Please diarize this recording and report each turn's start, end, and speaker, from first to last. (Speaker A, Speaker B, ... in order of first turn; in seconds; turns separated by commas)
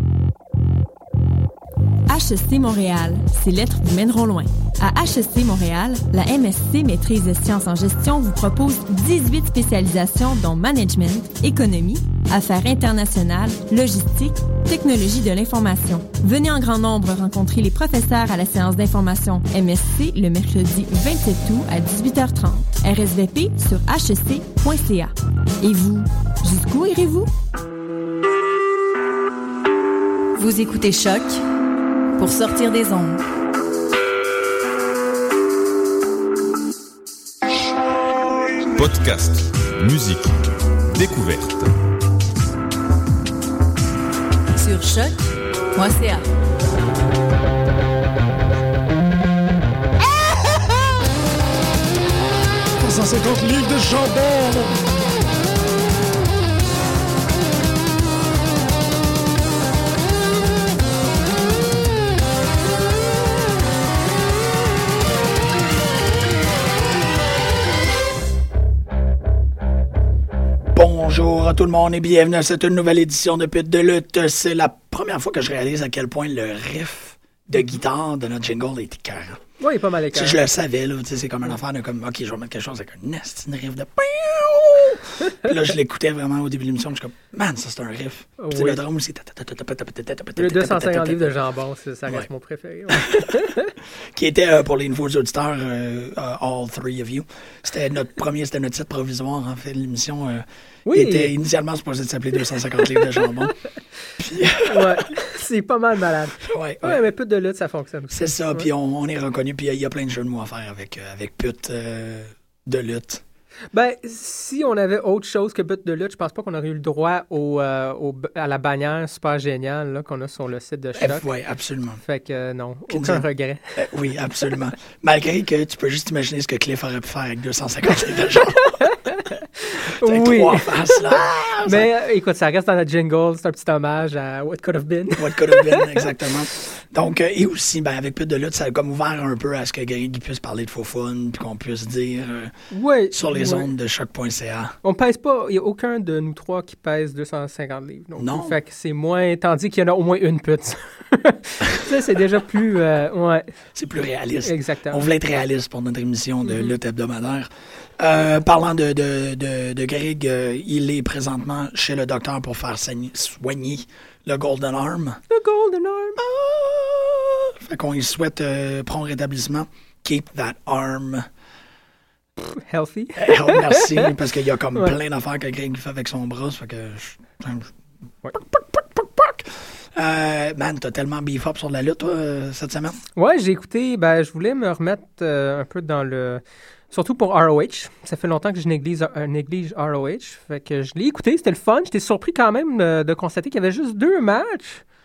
Speaker A: 2.1-27.3, Speaker B: 30.4-31.4, Speaker B: 32.2-33.2, Speaker C: 38.7-40.4, Speaker C: 40.9-41.7, Speaker B: 44.6-46.2, Speaker D: 52.8-54.8, Speaker D: 70.7-79.4, Speaker E: 79.6-80.4, Speaker D: 80.1-91.3, Speaker E: 88.4-88.8, Speaker E: 90.4-93.7, Speaker D: 92.9-103.6, Speaker E: 100.9-101.3, Speaker E: 103.0-103.2, Speaker D: 104.2-105.1, Speaker E: 104.6-108.7, Speaker D: 106.4-107.0, Speaker D: 108.1-113.2, Speaker E: 113.7-121.3, Speaker D: 121.0-122.0, Speaker E: 122.0-123.8, Speaker D: 122.9-128.9, Speaker E: 128.6-136.1, Speaker D: 129.8-131.9, Speaker D: 135.2-142.6, Speaker E: 142.7-143.7, Speaker D: 143.1-144.8, Speaker E: 144.8-153.5, Speaker D: 148.2-148.6, Speaker D: 153.8-165.2, Speaker E: 154.4-155.0, Speaker E: 156.4-156.7, Speaker E: 165.3-166.2, Speaker D: 166.2-171.3, Speaker E: 172.4-174.1, Speaker D: 173.2-177.8, Speaker D: 178.3-183.0, Speaker E: 183.2-194.8